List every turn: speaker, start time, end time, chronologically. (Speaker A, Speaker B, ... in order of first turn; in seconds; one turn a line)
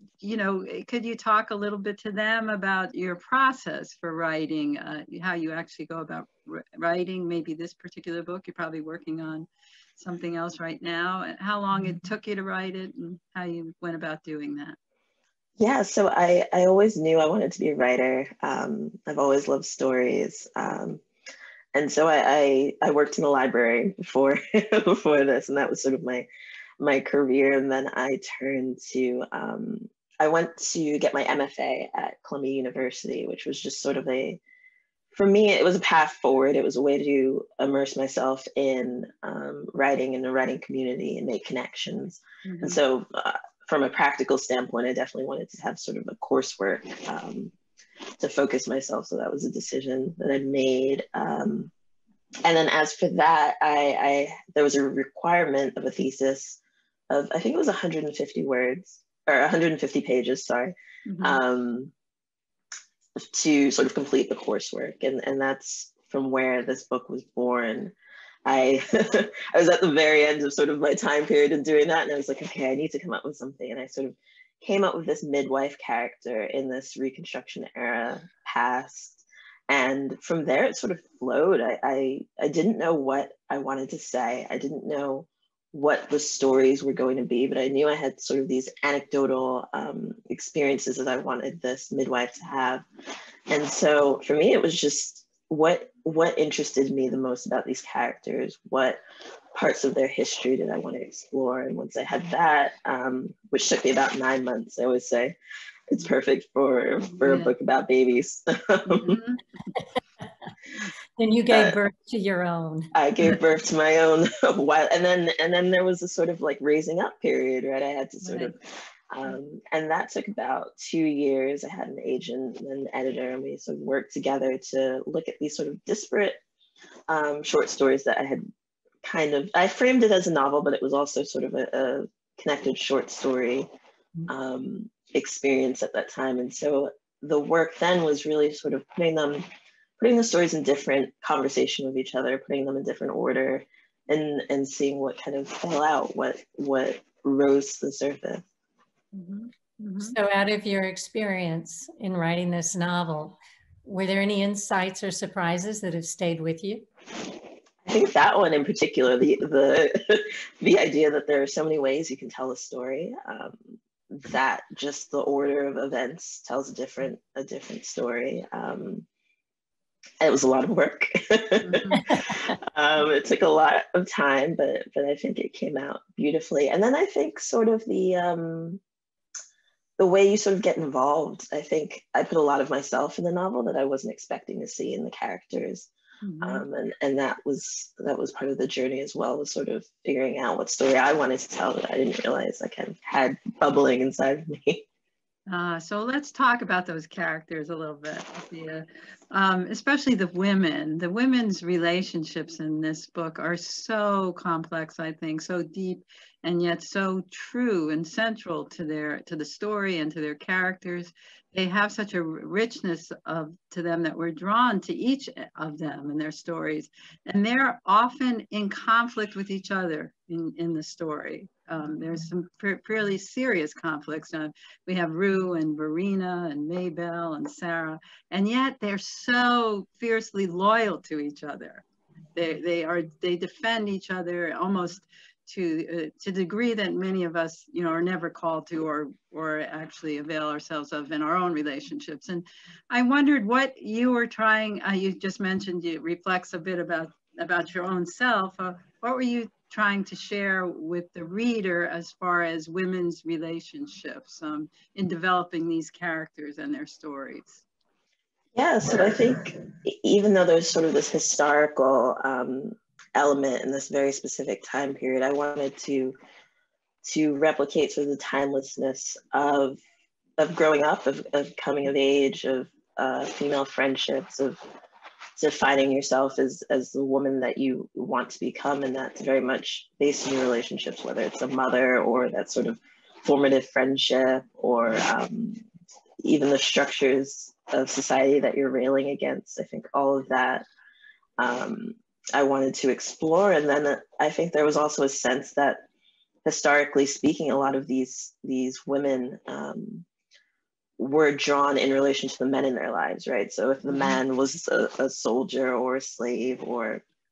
Speaker A: 0.2-14.8
Speaker B: 15.6-21.0
Speaker B: 21.7-26.3
Speaker B: 26.8-34.4
Speaker B: 35.1-47.5
Speaker A: 42.4-42.8
Speaker B: 48.2-51.7
Speaker B: 52.4-56.6
Speaker B: 57.1-61.9
Speaker A: 61.1-61.4
Speaker B: 63.3-67.9
Speaker B: 68.5-92.8
Speaker B: 93.5-99.0
Speaker B: 99.5-105.3
Speaker B: 105.9-109.2
Speaker A: 107.2-107.5
Speaker A: 108.9-109.4
Speaker C: 111.2-112.9
Speaker B: 111.5-111.8
Speaker B: 112.9-118.6
Speaker A: 118.2-118.5
Speaker B: 119.1-126.4
Speaker B: 127.1-128.4
Speaker B: 129.0-133.7
Speaker B: 134.3-139.4
Speaker B: 140.0-148.4
Speaker A: 149.1-150.1
Speaker C: 150.0-156.8
Speaker B: 157.8-169.1
Speaker B: 170.2-178.8
Speaker A: 171.6-172.1
Speaker B: 180.0-185.9
Speaker A: 186.2-186.6
Speaker B: 186.4-194.8
Speaker A: 195.5-257.6
Speaker B: 258.5-266.1
Speaker B: 267.0-269.8
Speaker B: 270.4-274.6
Speaker B: 275.4-285.6
Speaker B: 286.2-290.6
Speaker B: 291.4-295.9
Speaker B: 296.4-300.1
Speaker B: 301.0-307.0
Speaker A: 303.9-304.2